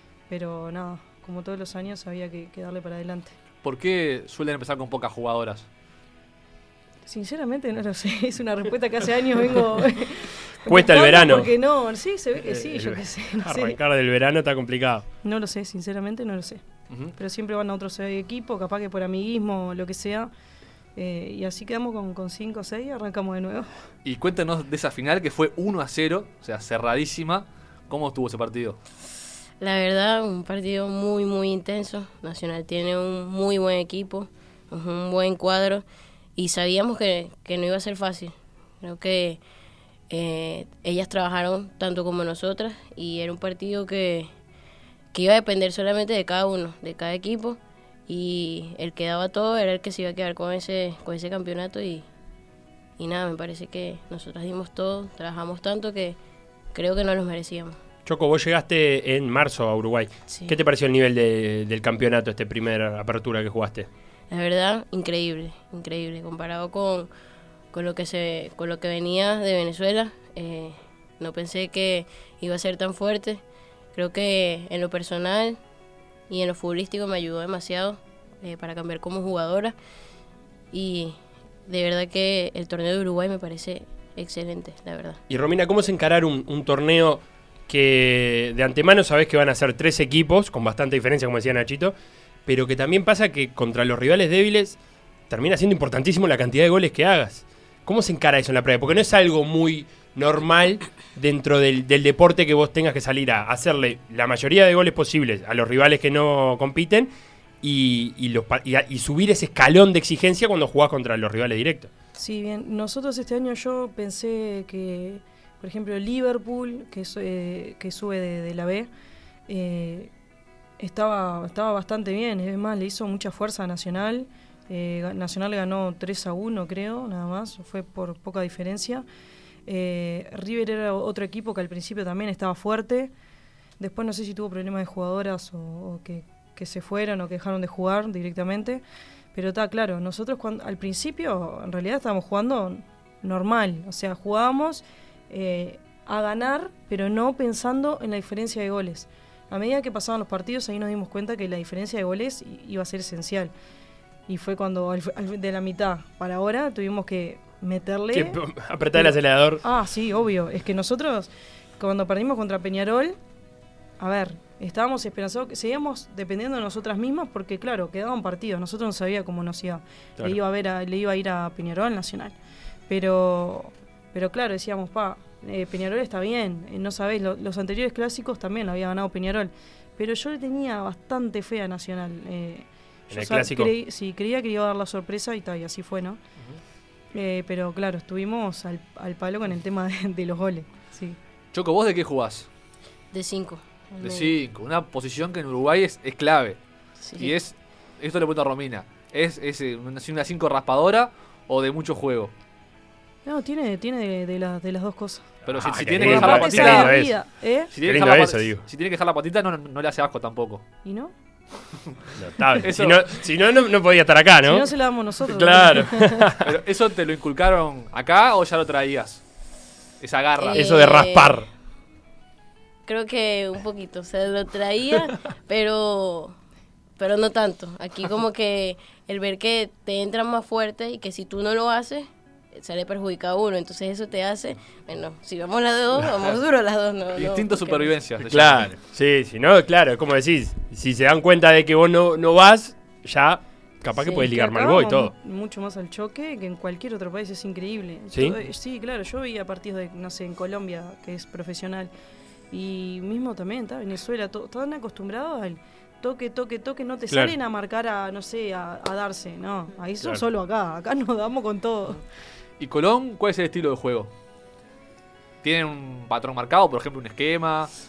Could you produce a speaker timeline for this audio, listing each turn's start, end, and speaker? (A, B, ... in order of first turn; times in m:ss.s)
0:00.3-0:03.3 A
0:03.6-0:05.7 B
0:07.0-0:13.8 A
0:10.7-0:11.5 C
0:12.4-0:15.0 C
0:15.2-0:16.6 A
0:17.2-0:20.3 A
0:20.9-0:23.7 A
0:24.0-0:28.8 B
0:29.6-0:35.8 D
0:36.4-0:39.4 D
0:40.1-0:44.3 D
0:45.1-0:52.1 D
0:53.0-0:56.2 D
0:56.7-0:57.8 D
0:58.0-1:03.9 C
1:00.3-1:00.6 D
1:04.3-1:07.1 D
1:07.7-1:13.4 D
1:13.9-1:15.6 D
1:16.3-1:19.7 D
1:20.7-1:25.2 D
1:25.3-1:31.9 C
1:32.4-1:34.8 C
1:35.3-1:47.1 C
1:47.6-1:51.9 C
1:52.2-1:58.9 A
1:59.5-2:00.1 A
2:00.8-2:09.0 A
2:09.6-2:13.1 A
2:13.8-2:33.5 A
2:34.3-2:38.4 A
2:38.1-2:39.6 C
2:38.9-2:43.2 A
2:44.0-2:52.4 A
2:52.9-3:06.2 A
3:03.1-3:03.7 C
3:07.1-3:11.2 A
3:11.5-3:12.5 B
3:13.1-3:14.3 D
3:14.0-3:16.6 B
3:17.0-3:17.3 D
3:17.2-3:22.3 B
3:23.2-3:25.4 A
3:25.4-3:27.1 B
3:25.5-3:27.1 C
3:25.9-3:27.7 A
3:27.7-3:30.6 B
3:27.8-3:28.6 C
3:30.8-3:31.1 A
3:32.2-3:34.7 C
3:32.6-3:33.0 B
3:34.4-3:36.3 A
3:35.2-3:36.5 C
3:36.4-3:39.2 B
3:40.0-3:40.8 B
3:40.4-3:41.4 D
3:40.5-3:41.5 C
3:42.8-3:46.4 D
3:47.0-3:57.9 D
3:57.1-3:58.7 B
3:58.3-4:05.1 C
4:04.0-4:04.3 D
4:04.3-4:11.9 A
4:12.5-4:22.0 A
4:22.6-4:24.1 B
4:25.4-4:27.7 B